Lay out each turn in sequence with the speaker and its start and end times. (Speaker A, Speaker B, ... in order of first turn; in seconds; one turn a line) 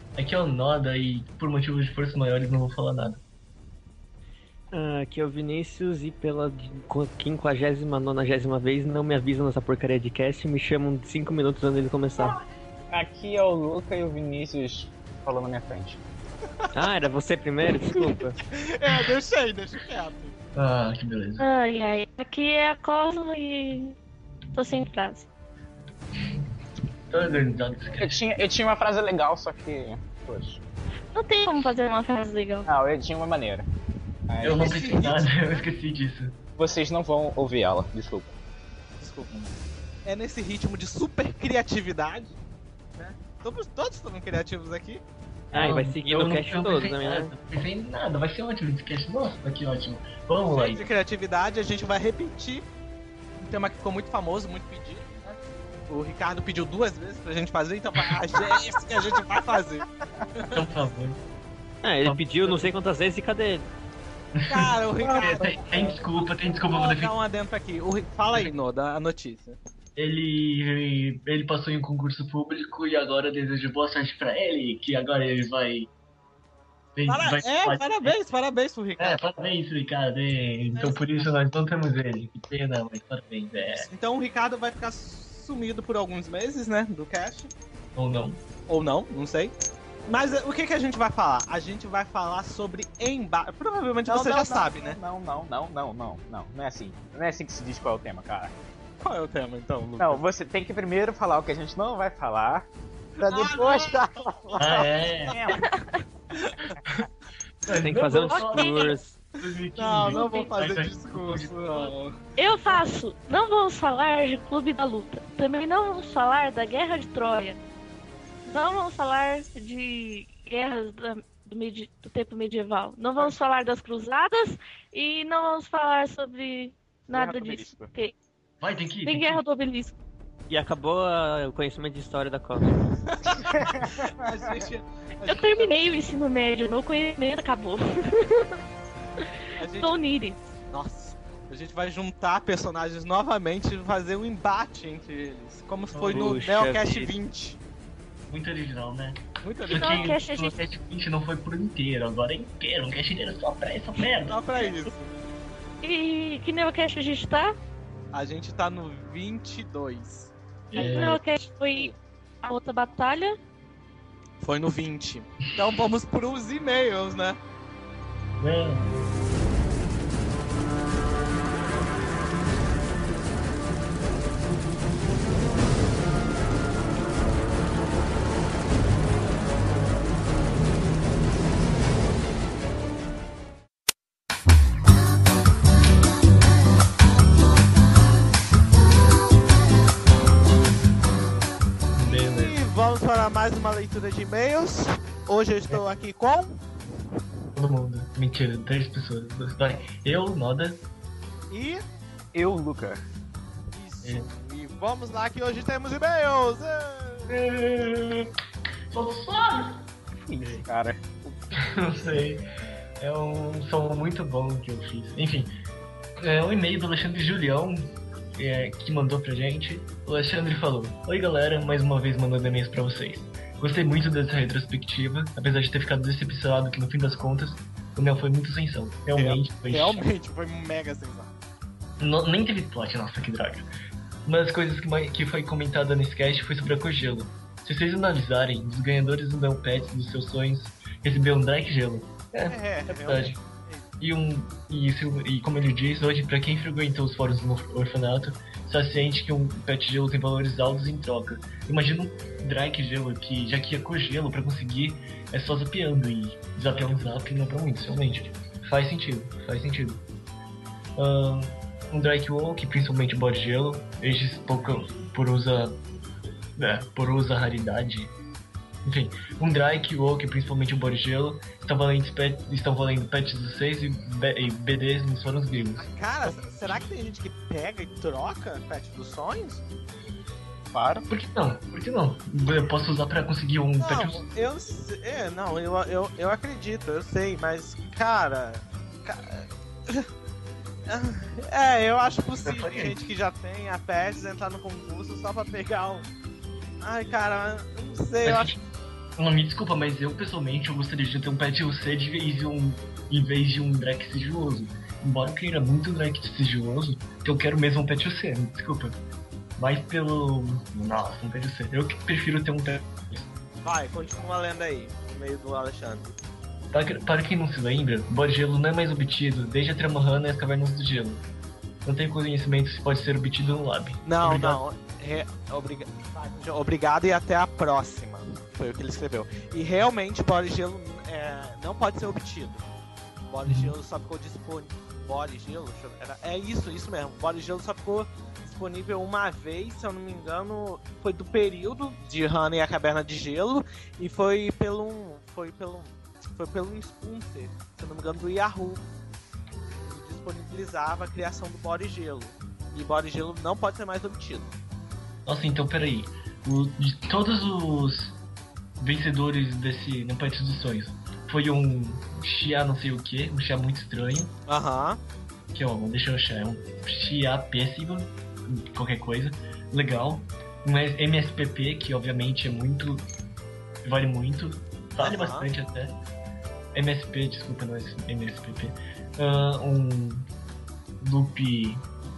Speaker A: 0.2-3.2
Speaker B: 4.7-12.4
Speaker C: 12.9-16.0
Speaker B: 16.7-18.4
Speaker D: 18.4-20.4
Speaker A: 20.5-21.5
Speaker E: 21.4-24.0
Speaker E: 24.5-25.3
Speaker A: 27.1-28.2
Speaker C: 28.0-30.6
Speaker E: 31.1-32.7
Speaker C: 32.6-33.6
Speaker C: 34.3-34.8
Speaker A: 34.4-36.4
Speaker D: 34.4-35.3
Speaker C: 36.6-38.4
Speaker D: 39.0-39.3
Speaker D: 40.0-42.4
Speaker D: 43.0-45.0
Speaker B: 45.5-47.3
Speaker A: 45.5-50.9
Speaker D: 50.5-52.7
Speaker D: 53.4-55.4
Speaker D: 55.9-60.6
Speaker A: 60.5-61.2
Speaker B: 61.8-63.7
Speaker A: 62.0-62.7
Speaker A: 64.4-67.1
Speaker D: 64.5-65.5
Speaker C: 65.0-66.0
Speaker D: 66.7-69.6
Speaker A: 70.0-75.9
Speaker A: 77.0-78.2
Speaker D: 77.1-79.2
Speaker A: 79.0-83.9
Speaker D: 80.7-81.3
Speaker D: 83.8-87.5
Speaker A: 88.0-88.4
Speaker D: 88.7-89.5
Speaker D: 90.1-95.0
Speaker C: 94.1-98.5
Speaker D: 99.0-100.2
Speaker C: 100.0-102.7
Speaker C: 103.2-104.1
Speaker D: 103.2-105.4
Speaker A: 104.6-105.4
Speaker C: 105.3-105.6
Speaker D: 106.4-106.8
Speaker A: 107.6-111.9
Speaker B: 107.8-109.2
Speaker E: 107.9-108.9
Speaker D: 109.8-112.2
Speaker E: 110.1-110.5
Speaker E: 112.4-117.6
Speaker E: 118.5-128.1
Speaker C: 127.1-127.9
Speaker A: 128.6-129.4
Speaker E: 129.1-130.0
Speaker B: 130.5-132.8
Speaker D: 133.0-135.7
Speaker C: 133.4-133.8
Speaker E: 135.3-138.6
Speaker D: 139.6-139.9
Speaker E: 139.8-140.5
Speaker D: 140.7-147.6
Speaker B: 145.9-147.1
Speaker A: 146.1-146.3
Speaker A: 148.3-154.4
Speaker D: 149.4-150.2
Speaker E: 149.7-150.6
Speaker D: 154.3-155.1
Speaker E: 155.8-157.6
Speaker D: 158.1-160.3
Speaker A: 160.7-161.2
Speaker E: 160.8-161.9
Speaker E: 162.4-163.4
Speaker D: 164.4-167.4
Speaker A: 168.4-168.9
Speaker A: 191.9-192.6
Speaker D: 192.3-196.6
Speaker A: 197.6-200.8
Speaker D: 201.5-201.8
Speaker C: 202.3-203.1
Speaker D: 203.7-207.3
Speaker A: 207.3-208.3
Speaker A: 208.9-209.8
Speaker C: 210.3-211.7
Speaker A: 210.4-210.7
Speaker A: 211.6-212.4
Speaker A: 213.0-215.5
Speaker A: 216.2-230.0
Speaker D: 229.2-231.3
Speaker A: 232.0-233.7
Speaker A: 234.2-243.4
Speaker D: 242.5-243.8
Speaker A: 244.0-260.0
Speaker A: 261.0-265.8
Speaker A: 266.6-268.1
Speaker A: 268.8-275.9
Speaker D: 275.8-279.6
Speaker C: 280.7-281.1
Speaker A: 281.1-284.2
Speaker D: 283.8-290.1
Speaker D: 290.9-296.1
Speaker A: 292.4-292.9
Speaker D: 296.8-298.6
Speaker A: 298.2-298.6
Speaker A: 299.2-309.0
Speaker A: 309.6-313.3
Speaker D: 313.6-316.1
Speaker A: 316.7-321.2
Speaker A: 321.9-324.6
Speaker D: 324.1-332.7
Speaker D: 333.3-348.8
Speaker A: 333.5-333.7
Speaker D: 349.8-354.5
Speaker A: 355.2-358.2
Speaker A: 358.8-364.4
Speaker D: 364.5-365.0
Speaker A: 365.5-373.1
Speaker A: 373.8-375.9
Speaker D: 375.0-375.5
Speaker A: 376.7-380.3
Speaker A: 381.0-381.9